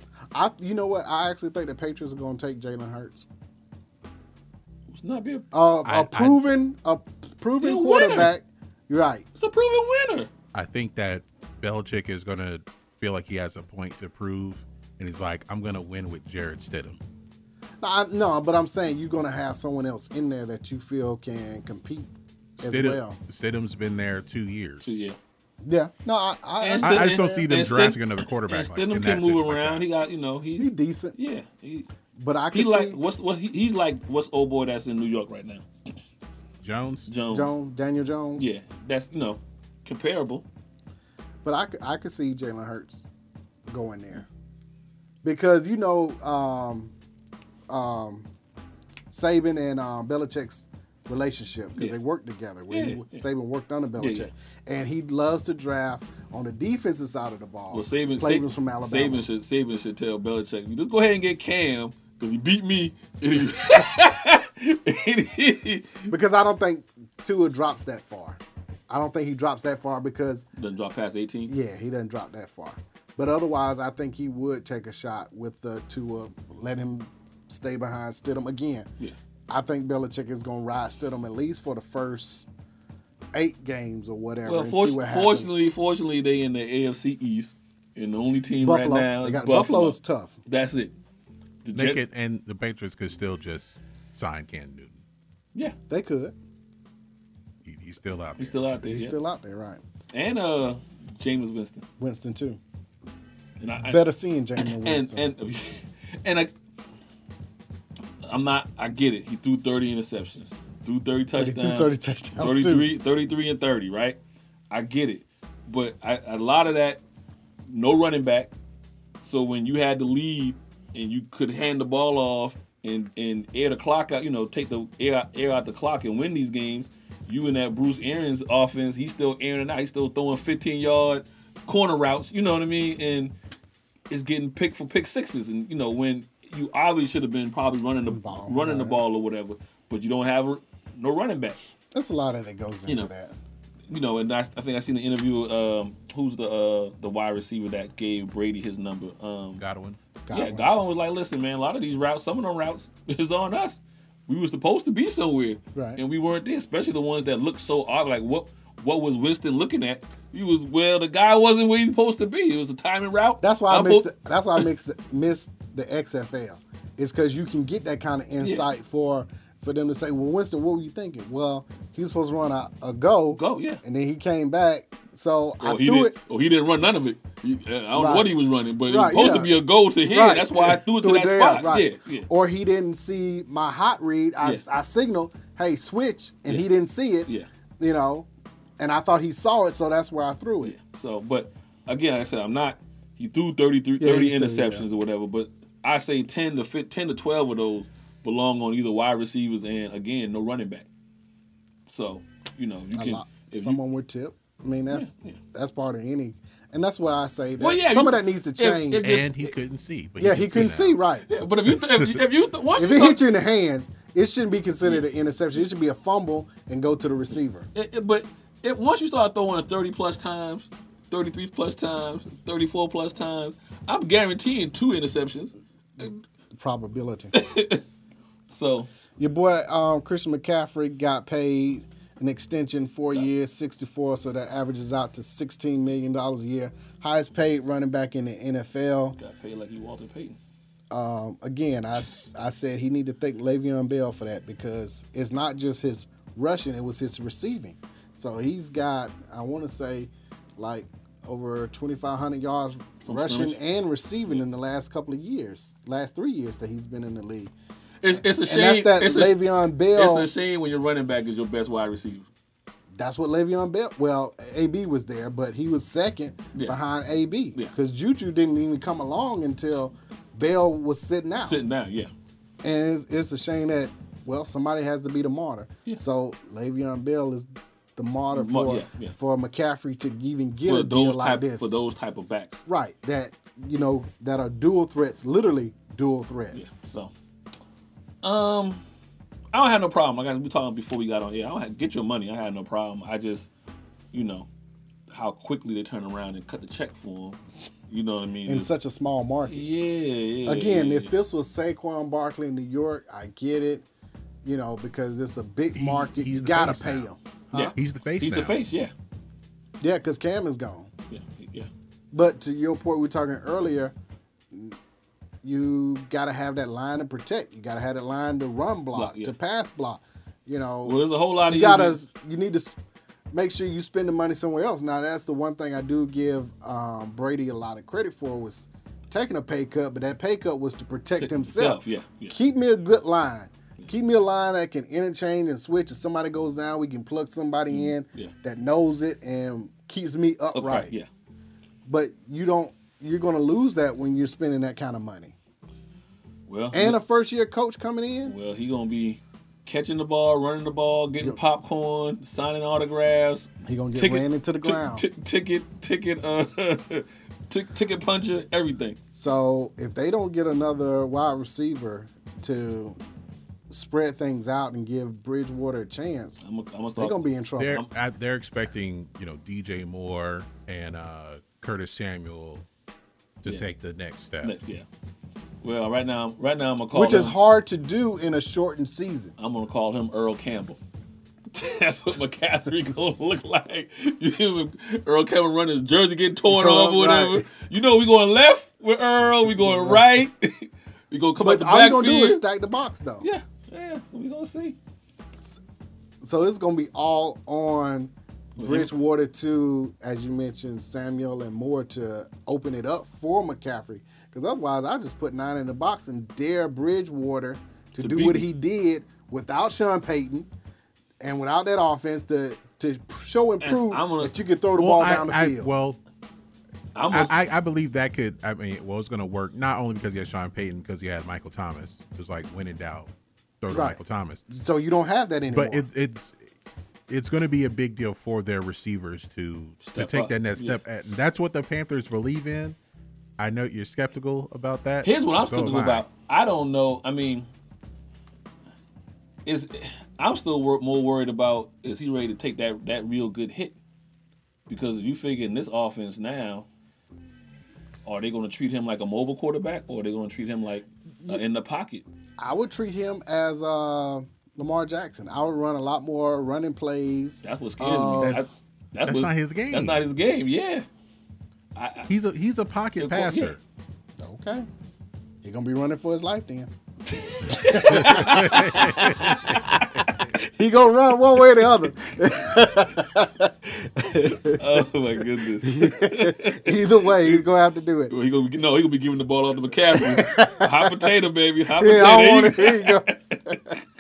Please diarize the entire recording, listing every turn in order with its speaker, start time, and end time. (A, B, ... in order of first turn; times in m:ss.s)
0:00.3-0:03.3 A
0:04.9-0:05.5 B
0:05.5-0:09.3 A
0:05.8-0:06.4 C
0:07.6-0:08.3 B
0:09.4-0:10.3 B
0:10.5-0:17.0 C
0:17.8-0:23.2 A
0:22.6-0:25.0 C
0:24.8-0:25.2 B
0:25.6-0:27.5 A
0:26.6-0:31.9 B
0:26.8-0:29.9 C
0:30.6-0:31.2 A
0:32.2-0:33.0 A
0:32.5-0:35.7 B
0:36.6-0:37.1 C
0:37.1-0:37.5 B
0:37.3-0:38.5 A
0:38.4-0:40.4 B
0:41.4-0:43.1 A
0:43.7-0:44.3 A
0:45.2-0:46.9 A
0:47.7-0:48.3 A
0:49.1-0:59.3 A
0:52.7-0:53.2 B
0:54.0-0:54.3 B
0:57.7-1:06.1 B
1:06.1-1:10.5 A
1:10.6-1:11.5 B
1:11.5-1:18.9 A
1:19.5-1:22.5 A
1:23.3-1:25.6 A
1:24.4-1:30.9 B
1:28.6-1:30.4 A
1:31.6-1:32.0 B
1:31.7-1:35.0 C
1:35.9-1:36.4 A
1:37.6-1:38.7 C
1:38.4-1:39.2 B
1:38.8-1:39.8 A
1:40.1-1:41.9 B
1:42.0-1:42.6 A
1:43.6-1:44.1 B
1:43.9-1:45.3 A
1:44.6-1:46.5 B
1:48.2-1:54.2 B
1:51.4-1:52.9 A
1:54.7-1:57.0 B
1:57.7-1:58.5 B
1:59.2-2:13.3 B
2:14.1-2:21.6 B
2:18.0-2:19.0 A
2:21.9-2:23.4 A
2:23.9-2:29.6 B
2:29.6-2:30.0 C
2:30.3-2:30.7 A
2:30.3-2:44.1 B
2:35.7-2:36.0 A
2:43.4-2:56.2 A
2:48.4-2:48.6 B
2:53.3-2:53.8 B
2:55.6-3:02.3 B
2:58.0-2:58.3 A
2:58.9-3:08.3 A
3:08.8-3:10.8 A
3:10.6-3:20.9 B
3:14.0-3:14.9 A
3:21.9-3:23.8 B
3:22.9-3:29.5 A
3:24.9-3:25.4 B
3:27.6-3:29.3 B
3:29.0-3:31.0 C
3:30.2-3:31.3 A
3:31.3-3:33.2 B
3:32.8-3:37.7 A
3:37.8-3:46.2 B
3:46.0-3:47.4 A
3:47.3-3:47.8 B
3:48.5-3:48.9 B
3:49.2-3:59.2 A
3:59.2-4:00.4 B
4:00.9-4:17.5 A
4:13.0-4:13.6 B
4:18.0-4:22.3 B
4:18.1-4:20.3 A
4:22.9-4:31.6 A
4:31.4-4:32.1 B
4:32.6-4:41.7 A
4:38.3-4:39.2 B
4:40.6-4:42.6 B
4:42.7-4:46.7 A
4:46.5-4:47.1 B
4:48.2-4:48.8 B
4:49.5-4:53.5 B
4:54.1-4:54.5 B
4:55.1-4:58.7 B
4:58.5-4:59.6 A
4:59.5-5:01.1 B
5:00.4-5:03.9 A
5:04.4-5:07.7 A
5:05.8-5:07.1 C
5:07.5-5:08.9 B
5:07.8-5:08.6 C
5:09.8-5:10.9 A
5:11.1-5:11.7 B
5:12.1-5:14.0 A
5:14.5-5:14.8 A
5:15.4-5:22.8 A
5:18.9-5:19.3 B
5:20.8-5:22.0 B
5:23.3-5:40.9 A
5:31.2-5:32.4 B
5:37.7-5:38.3 B
5:40.5-5:41.1 B
5:41.8-5:45.4 A
5:46.5-5:47.0 B
5:46.7-5:48.4 A
5:48.2-5:59.0 B
5:53.6-5:55.1 A
5:59.1-6:03.0 A
6:03.7-6:06.4 A
6:06.4-6:07.9 B
6:07.0-6:07.8 A
6:07.6-6:12.6 C
6:13.4-6:14.5 C
6:14.4-6:14.9 B
6:15.6-6:17.4 B
6:16.9-6:19.3 A
6:19.4-6:20.8 B
6:21.5-6:32.4 B
6:26.5-6:27.5 A
6:29.6-6:30.0 A
6:31.4-6:33.3 A
6:33.2-6:34.8 B
6:36.2-6:50.5 A
6:38.6-6:38.9 B
6:48.0-6:48.5 B
6:51.2-6:55.7 A
6:53.6-6:54.3 B
6:54.8-6:56.0 C
6:57.0-6:57.3 B
6:57.1-7:04.4 C
7:03.7-7:05.8 A
7:05.5-7:06.5 C
7:07.1-7:12.8 C
7:09.8-7:10.8 B
7:13.4-7:16.1 C
7:15.0-7:17.5 B
7:19.5-7:23.8 B
7:24.7-7:26.7 B
7:28.0-7:32.0 B
7:32.4-7:38.5 A
7:37.4-7:40.9 B
7:39.0-7:40.1 C
7:41.8-7:42.1 B
7:42.1-7:43.6 C
7:43.0-7:43.6 B
7:44.2-7:44.7 A
7:45.4-7:46.7 A
7:47.4-7:50.2 B
7:47.5-7:49.0 A
7:48.0-7:49.2 C
7:50.5-7:54.8 A
7:54.5-7:57.4 B
7:55.6-7:58.1 A
7:58.1-8:03.5 B
7:59.9-8:01.1 A
8:01.7-8:03.8 A